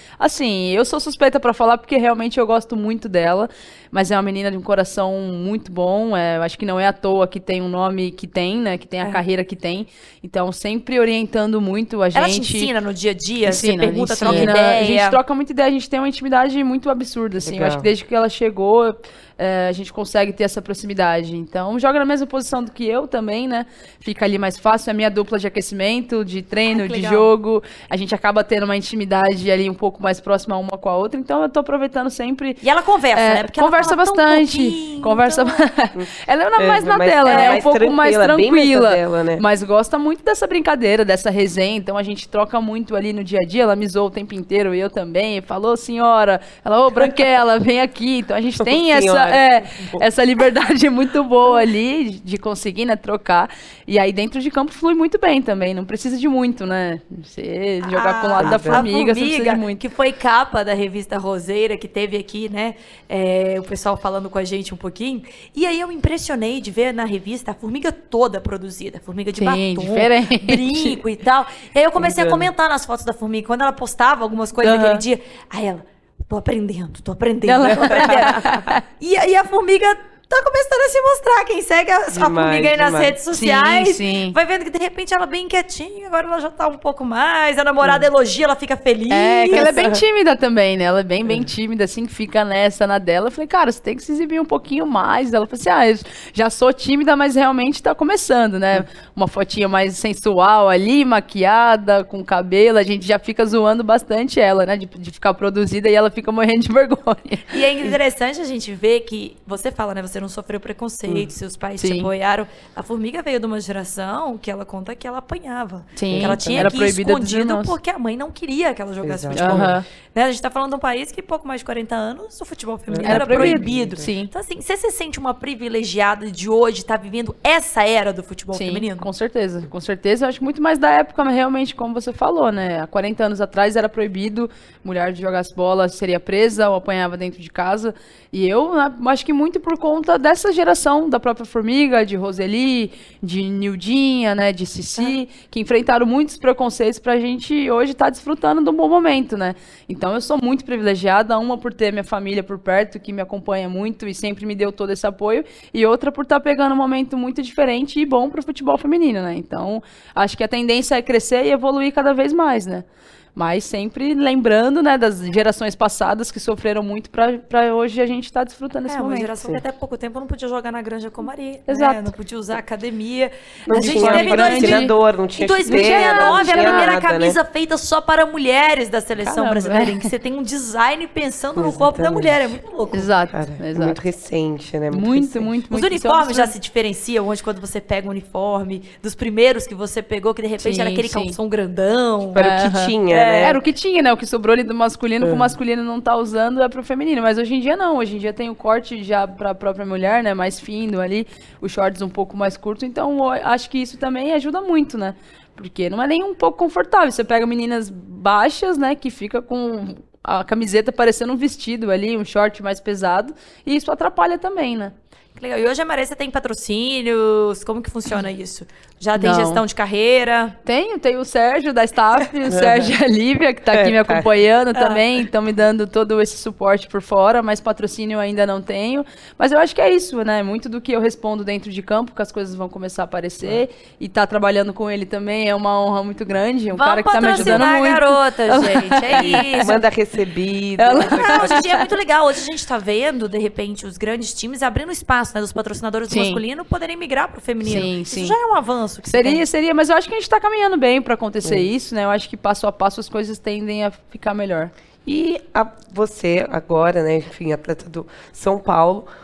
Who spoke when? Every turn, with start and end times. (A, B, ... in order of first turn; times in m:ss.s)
0:00.2-0:12.7 A
0:12.1-0:15.2 B
0:13.4-0:32.6 A
0:14.2-0:14.6 C
0:17.4-0:17.9 C
0:26.7-0:27.3 B
0:32.6-0:35.6 B
0:33.1-0:59.8 A
0:36.0-0:39.4 C
0:37.3-0:37.6 B
0:48.6-0:50.0 C
0:57.8-1:29.8 B
0:58.4-0:58.9 C
1:09.4-1:11.0 A
1:12.0-1:12.5 C
1:14.6-1:15.0 A
1:17.5-1:18.8 A
1:17.7-1:18.5 C
1:22.1-1:23.2 C
1:23.3-1:24.4 A
1:29.1-1:47.9 A
1:29.5-1:30.0 C
1:47.5-2:09.1 B
1:51.8-1:52.1 A
1:56.0-1:57.8 A
1:56.1-1:56.7 C
1:59.0-1:59.8 C
1:59.3-1:59.8 A
2:02.9-2:04.1 C
2:03.0-2:04.3 A
2:08.5-2:42.8 A
2:43.4-2:49.3 A
2:48.9-3:03.1 B
2:51.7-2:52.1 A
2:53.7-2:57.4 C
2:53.7-2:54.9 A
2:55.7-2:56.9 A
2:59.2-3:00.1 A
3:01.6-3:02.5 C
3:02.9-3:04.0 A
3:03.3-3:05.5 C
3:04.9-3:06.5 A
3:05.7-3:12.5 B
3:10.6-3:11.4 A
3:12.3-3:13.6 C
3:12.4-3:34.9 A
3:13.1-3:13.6 B
3:15.2-3:15.5 C
3:35.4-3:40.6 B
3:39.2-3:39.6 A
3:40.6-3:59.8 A
3:42.5-3:42.9 C
3:43.7-3:44.3 C
3:44.8-3:45.0 B
3:56.7-3:59.8 B
3:57.3-3:57.7 C
3:59.1-4:01.6 C
4:00.8-4:01.9 A
4:01.0-4:09.4 B
4:06.1-4:06.4 A
4:07.6-4:08.4 A
4:09.1-4:14.7 A
4:15.0-4:19.1 C